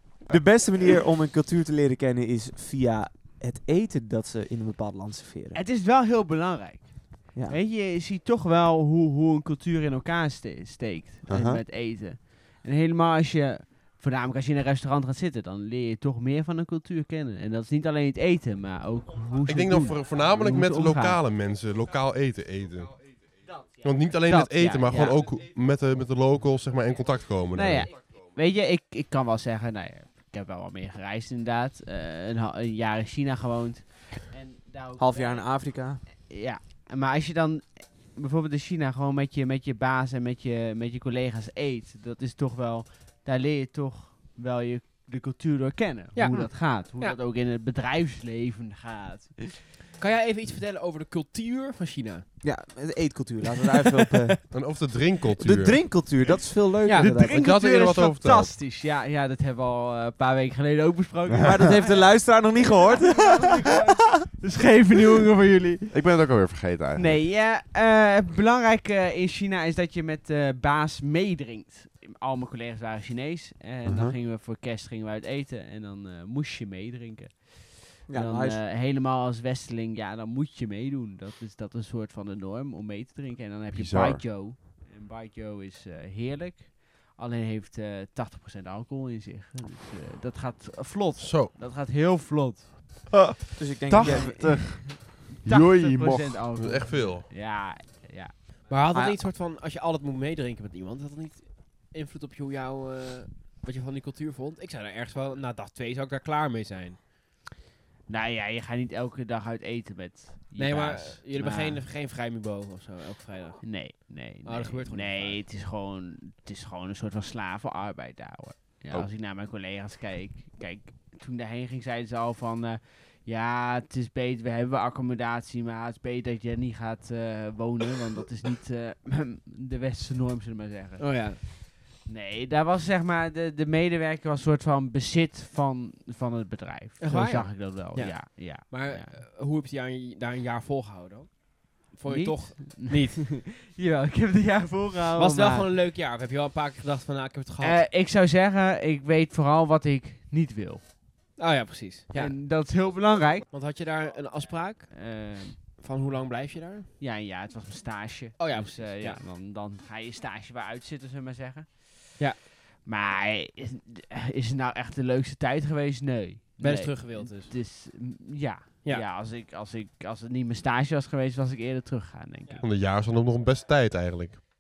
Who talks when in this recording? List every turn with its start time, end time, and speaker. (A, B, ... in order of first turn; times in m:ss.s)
0:00.3-0:05.6 A
0:05.5-0:21.2 B
0:11.3-0:11.6 C
0:19.5-0:23.2 D
0:23.8-0:27.9 D
0:24.2-0:25.2 B
0:27.5-0:49.6 B
0:35.0-0:36.0 A
0:46.1-0:47.2 E
0:50.0-0:52.2 E
0:52.4-0:54.8 A
0:54.5-0:55.9 D
0:55.4-0:57.5 A
0:56.8-0:57.1 E
0:57.0-1:05.9 B
0:57.1-0:58.5 D
1:01.4-1:03.7 A
1:05.9-1:07.2 C
1:07.0-1:33.1 B
1:13.9-1:14.2 C
1:18.1-1:18.6 A
1:23.7-1:24.2 C
1:31.2-1:31.5 D
1:33.6-1:34.7 A
1:33.9-1:36.4 C
1:34.0-1:38.4 B
1:36.5-1:37.3 D
1:38.7-1:47.0 E
1:38.9-1:39.2 A
1:48.1-1:51.8 B
1:50.6-1:53.8 E
1:53.6-2:19.2 B
1:54.4-1:55.4 E
2:11.0-2:11.4 E
2:17.0-2:23.2 E
2:22.1-2:25.7 B
2:25.2-2:27.8 E
2:27.6-2:30.8 B
2:31.4-2:32.4 E
2:32.1-2:33.5 B
2:33.5-2:36.9 E
2:34.9-2:35.8 B
2:37.0-2:52.6 B
2:38.4-2:39.2 E
2:46.6-2:47.6 E
2:52.6-2:54.4 D